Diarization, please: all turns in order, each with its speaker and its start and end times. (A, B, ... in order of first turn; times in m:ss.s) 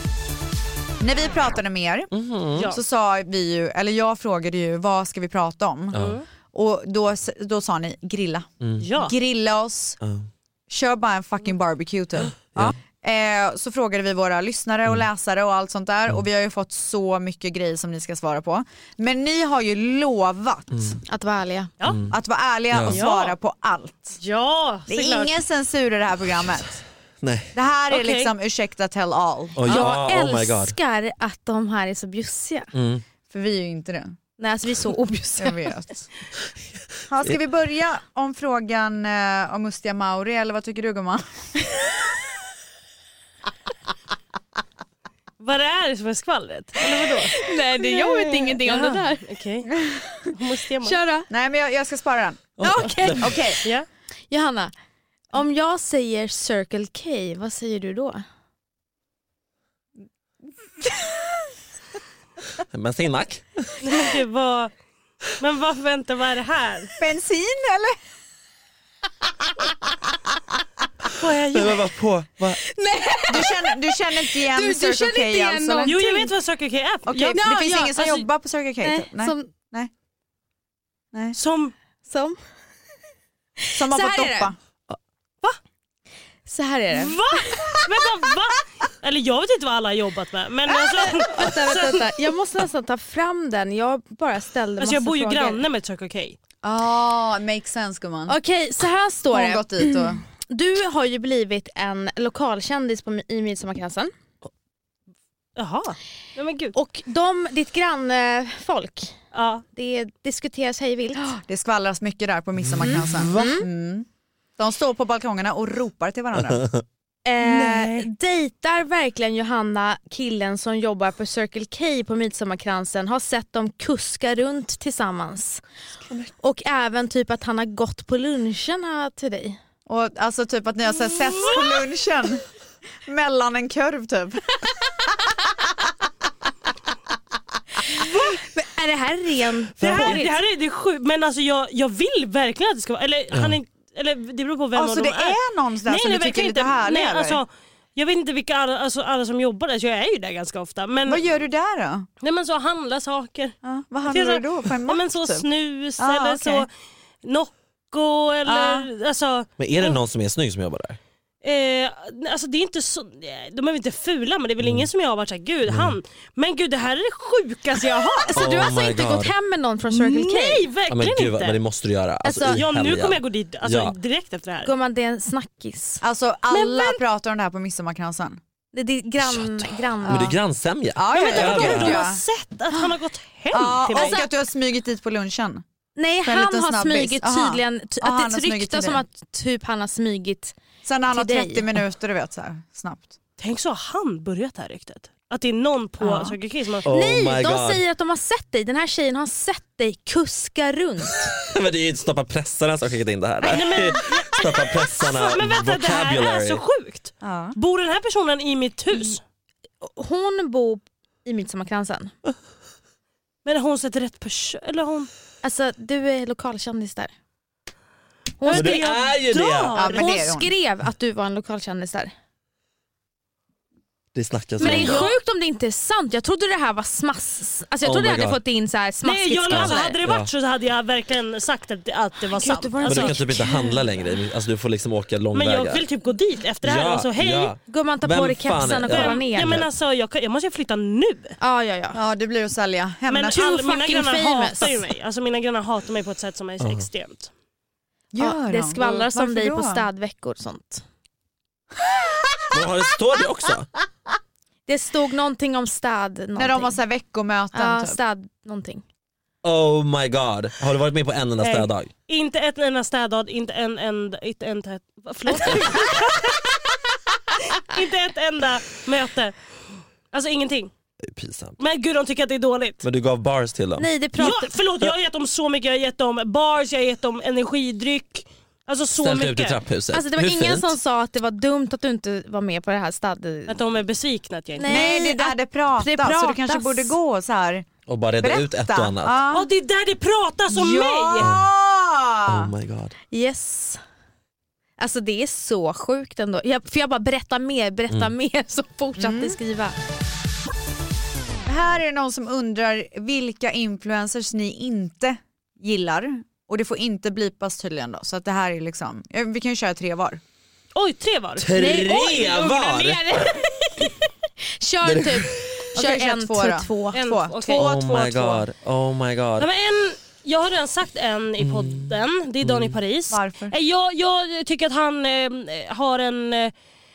0:01.0-0:02.1 A
0:02.1-0:02.7 B
0:02.6-0:02.8 C
0:02.6-0:06.0 A
0:05.9-0:06.2 B
0:05.9-0:06.2 C
0:06.5-0:10.0 A
0:08.6-0:08.9 B
0:08.8-0:09.1 C
0:10.0-0:10.3 B
0:10.7-0:21.0 A
0:20.7-0:21.0 B
0:21.1-0:21.7 D
0:21.9-0:22.1 B
0:22.1-0:24.2 A
0:22.7-0:23.0 B
0:22.9-0:23.4 C
0:24.2-0:25.4 C
0:24.9-0:26.8 A
0:27.2-0:27.5 B
0:27.5-0:29.9 A
0:27.9-0:28.3 C
0:29.6-0:30.8 B
0:29.6-0:32.7 D
0:32.7-0:33.0 B
0:33.3-0:34.1 A
0:34.4-0:35.7 D
0:35.4-0:36.0 A
0:37.1-0:41.4 A
0:45.4-0:51.0 C
0:47.3-0:49.2 D
0:50.8-0:51.3 D
0:51.3-0:52.5 A
0:52.6-0:53.4 B
0:52.6-0:53.7 D
0:53.2-0:53.6 A
0:54.3-0:54.7 D
0:55.3-0:58.2 D
1:02.6-1:03.8 B
1:03.8-1:04.7 C
1:05.4-1:07.0 C
1:07.0-1:08.0 A
1:11.2-1:11.9 C
1:11.5-1:12.6 B
1:12.6-1:16.3 D
1:13.3-1:16.0 A
1:15.8-1:17.4 C
1:17.0-1:19.9 A
1:17.3-1:18.2 D
1:18.8-1:19.5 D
1:21.3-1:21.7 C
1:22.0-1:22.4 D
1:23.6-1:24.5 D
1:23.7-1:24.5 A
1:26.5-1:27.9 D
1:26.9-1:32.1 C
1:31.0-1:35.6 D
1:34.8-1:36.4 C
1:36.6-1:38.3 A
1:38.3-1:44.1 D
1:39.3-1:40.2 A
1:45.6-1:46.8 C
1:46.7-1:49.2 D
1:49.3-1:49.6 C
1:49.7-1:51.3 D
1:51.2-1:54.1 A
1:52.6-1:53.5 B
1:52.8-1:53.7 D
1:54.6-1:56.6 A
1:56.5-1:56.8 B
1:57.2-2:05.6 D
1:57.4-1:58.1 C
2:06.4-2:09.6 D
2:09.8-2:12.4 A
2:11.3-2:11.8 C
2:13.0-2:14.6 A
2:17.8-2:20.4 D
2:19.8-2:20.2 B
2:19.8-2:31.2 C
2:23.3-2:23.6 B
2:24.8-2:27.4 A
2:31.0-2:32.1 A
2:32.2-2:36.7 C
2:33.6-2:35.5 A
2:36.0-2:36.7 A
2:37.2-2:40.0 C
2:38.4-2:38.9 A
2:39.6-2:41.0 B
2:41.4-2:48.4 C
2:44.6-2:44.9 B
2:45.7-2:46.0 B
2:48.2-2:50.6 D
2:48.3-2:49.3 B
2:49.9-2:51.6 C
2:50.9-2:54.0 B
2:52.2-2:52.6 D
2:52.5-2:54.7 C
2:54.6-2:56.0 D
2:56.0-2:58.4 A
2:56.5-2:57.0 C
2:58.7-3:00.3 D
2:59.2-3:02.0 B
3:00.0-3:00.4 A
3:01.0-3:02.2 A
3:01.1-3:04.2 C
3:03.5-3:05.6 A
3:04.0-3:04.2 D
3:06.0-3:10.6 D
3:06.2-3:09.0 A
3:10.8-3:13.2 A
3:11.1-3:11.8 D
3:13.4-3:16.8 C
3:16.0-3:21.3 D
3:16.8-3:17.8 B
3:21.5-3:26.6 B
3:23.4-3:29.2 C
3:27.2-3:27.6 A
3:29.8-3:32.1 D
3:33.4-3:35.1 C
3:35.4-3:37.1 D
3:38.4-3:38.8 D
3:38.4-3:40.1 C
3:38.5-3:40.0 B
3:39.7-3:40.5 A
3:40.0-3:42.1 D
3:44.1-3:45.1 B
3:44.6-3:50.0 D
3:44.6-3:45.2 C
3:47.8-3:48.4 B
3:49.0-3:53.2 C
3:49.5-3:50.3 B
3:52.3-3:53.9 D
3:52.8-3:55.8 B
3:55.3-3:57.5 C
3:56.6-3:59.7 B
3:57.7-3:59.6 D
3:58.8-4:01.4 C
4:01.4-4:02.0 D
4:01.9-4:03.6 A
4:03.1-4:07.3 C
4:03.4-4:04.8 D
4:06.6-4:06.8 B
4:08.1-4:09.8 A
4:08.2-4:10.8 D
4:11.9-4:12.4 A
4:12.5-4:13.7 B
4:14.7-4:16.8 D
4:16.4-4:18.0 A
4:17.5-4:18.8 D
4:19.4-4:21.9 B
4:21.4-4:26.4 C
4:25.3-4:25.9 D
4:27.5-4:29.4 C
4:30.1-4:30.7 C
4:31.0-4:31.6 B
4:31.6-4:32.8 C
4:32.8-4:33.9 B
4:33.8-4:34.5 D
4:34.2-4:39.6 C
4:39.0-4:40.7 B
4:39.9-4:43.6 D
4:43.5-4:44.9 C
4:44.6-4:47.0 D
4:44.7-4:47.7 A
4:47.9-4:49.2 B
4:48.2-4:49.5 A
4:49.3-4:51.3 C
4:50.5-4:52.5 A
4:51.2-4:51.5 B
4:52.3-4:52.9 B
4:53.1-4:53.8 D
4:54.8-4:59.8 D
4:59.0-4:59.4 A
5:01.5-5:10.2 A
5:10.8-5:11.8 C
5:11.4-5:13.3 B
5:11.5-5:17.0 D
5:14.8-5:15.6 B
5:15.7-5:17.7 A
5:16.9-5:18.4 C
5:17.5-5:19.5 B
5:19.4-5:26.5 C
5:21.4-5:22.8 B
5:23.1-5:23.5 A